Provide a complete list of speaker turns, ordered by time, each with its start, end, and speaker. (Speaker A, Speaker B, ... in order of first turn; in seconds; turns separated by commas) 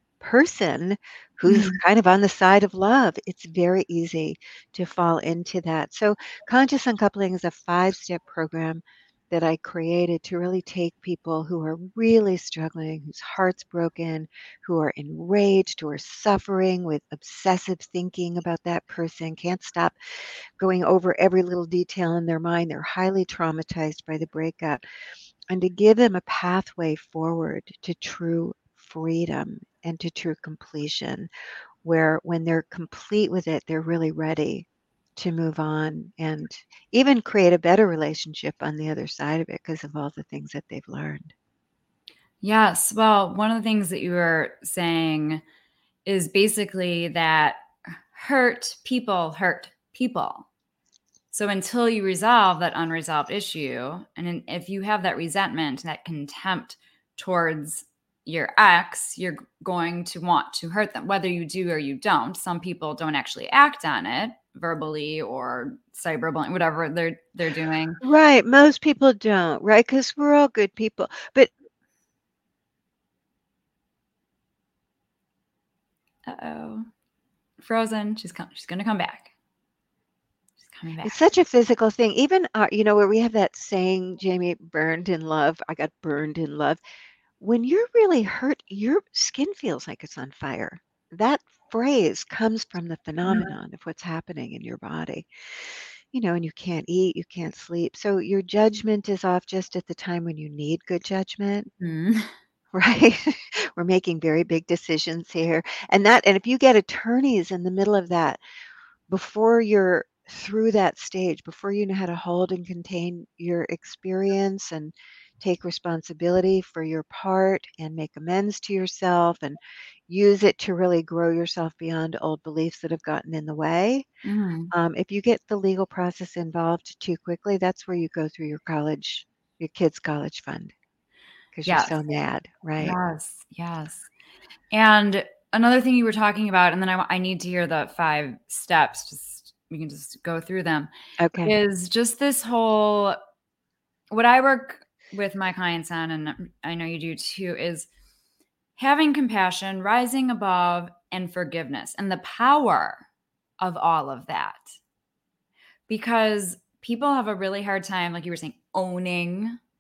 Speaker A: 0.2-24.8, Speaker B: 1.5-1.8, Speaker A: 25.5-31.3, Speaker A: 31.8-41.3, Speaker B: 42.4-45.4, Speaker B: 46.0-50.5, Speaker B: 51.3-68.0, Speaker A: 68.0-71.5, Speaker B: 76.3-76.9, Speaker B: 77.6-79.3, Speaker B: 80.6-81.2, Speaker A: 81.0-86.8, Speaker A: 87.4-101.7, Speaker B: 93.2-93.5, Speaker B: 101.8-102.3, Speaker A: 102.7-108.4, Speaker A: 109.1-124.1, Speaker B: 124.2-124.7, Speaker A: 124.7-130.7, Speaker A: 131.5-133.0, Speaker B: 131.7-132.0, Speaker B: 132.8-134.1, Speaker B: 134.7-140.9, Speaker A: 141.2-141.5, Speaker B: 141.4-143.2, Speaker B: 144.1-147.9, Speaker B: 148.8-153.1, Speaker B: 153.6-154.8, Speaker B: 155.9-159.6